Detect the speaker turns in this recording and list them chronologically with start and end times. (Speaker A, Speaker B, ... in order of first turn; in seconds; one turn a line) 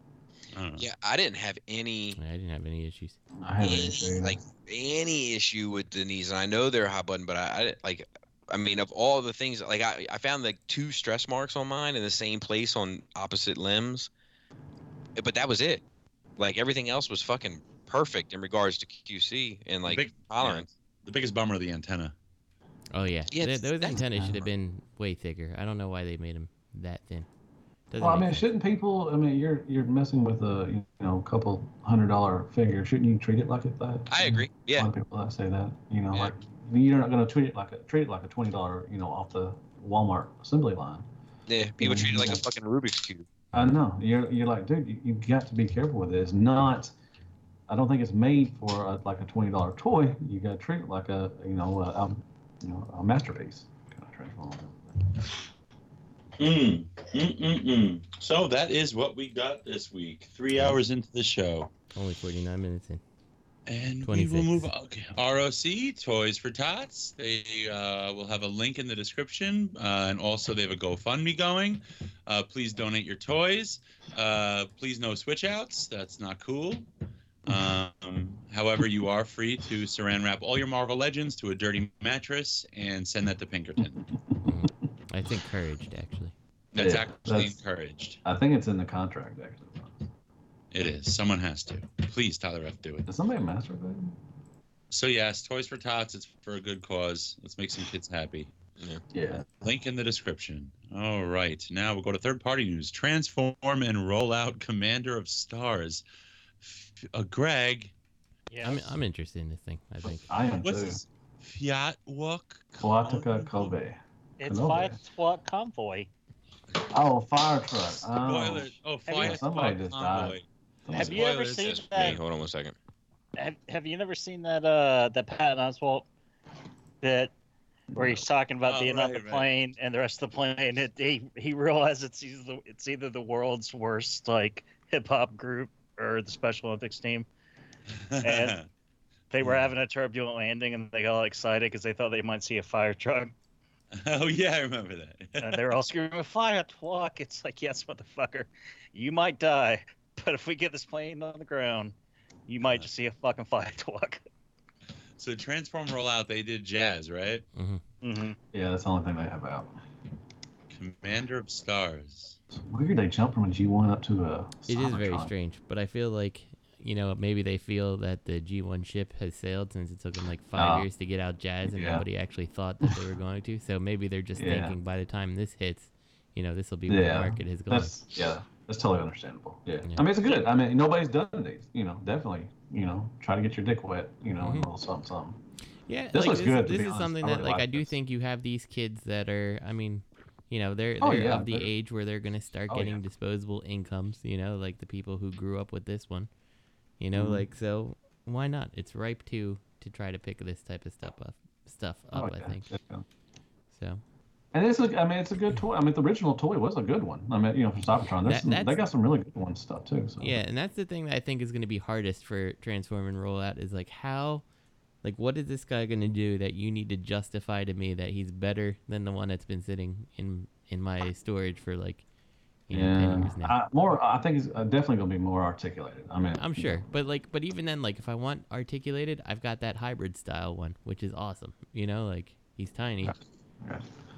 Speaker A: 0.5-0.9
Speaker B: 0.8-2.2
Speaker C: 2.2-3.2
Speaker D: 3.4-4.4
Speaker B: 3.6-14.1
Speaker B: 15.2-15.8
Speaker B: 16.4-20.7
Speaker A: 19.9-22.1
Speaker C: 22.9-27.3
Speaker B: 23.3-24.0
Speaker D: 23.9-24.5
Speaker C: 27.9-28.4
Speaker D: 28.0-41.1
Speaker B: 34.1-34.9
Speaker B: 41.5-43.3
Speaker D: 41.8-42.4
Speaker D: 43.5-46.9
Speaker D: 47.7-54.9
Speaker A: 56.4-61.7
Speaker C: 61.9-63.0
Speaker A: 63.7-76.9
Speaker C: 64.0-64.7
Speaker A: 77.5-84.0
Speaker C: 84.5-86.3
Speaker A: 86.7-88.2
Speaker D: 86.8-87.6
Speaker D: 88.2-90.0
Speaker A: 90.7-93.1
Speaker D: 93.1-94.2
Speaker A: 94.9-98.5
Speaker B: 98.8-99.0
Speaker D: 99.1-99.5
Speaker A: 99.6-106.0
Speaker A: 106.6-107.9
Speaker E: 108.5-108.8
Speaker C: 108.6-110.3
Speaker D: 110.3-111.0
Speaker A: 110.6-113.7
Speaker D: 112.8-115.0
Speaker E: 114.4-116.1
Speaker D: 116.9-121.2
Speaker A: 118.2-122.2
Speaker E: 119.1-119.4
Speaker E: 120.9-122.2
Speaker B: 121.1-122.7
Speaker E: 123.4-126.1
Speaker E: 127.0-127.3
Speaker D: 128.0-128.2
Speaker E: 128.0-137.3
Speaker A: 128.6-129.5
Speaker A: 138.1-138.7
Speaker E: 138.2-138.6
Speaker E: 139.3-143.3
Speaker A: 143.9-145.7
Speaker E: 145.4-151.9
Speaker E: 152.5-154.2
Speaker A: 155.2-157.4
Speaker C: 157.6-157.8
Speaker E: 158.0-158.4
Speaker D: 158.5-159.7
Speaker A: 160.7-162.4
Speaker D: 162.5-165.3
Speaker C: 164.7-178.0
Speaker D: 170.6-170.9
Speaker D: 171.6-172.1
Speaker D: 174.4-174.8
Speaker D: 176.9-185.4
Speaker C: 184.4-184.7
Speaker C: 185.9-196.3
Speaker D: 186.1-187.9
Speaker D: 191.0-191.7
Speaker D: 192.7-193.0
Speaker C: 197.0-202.7
Speaker D: 197.1-197.4
Speaker D: 202.1-203.0
Speaker C: 203.7-204.0
Speaker D: 204.5-210.4
Speaker C: 208.2-208.8
Speaker C: 210.2-214.4
Speaker C: 215.0-222.0
Speaker C: 222.7-223.6
Speaker D: 222.7-226.9
Speaker C: 226.4-233.1
Speaker D: 233.0-233.9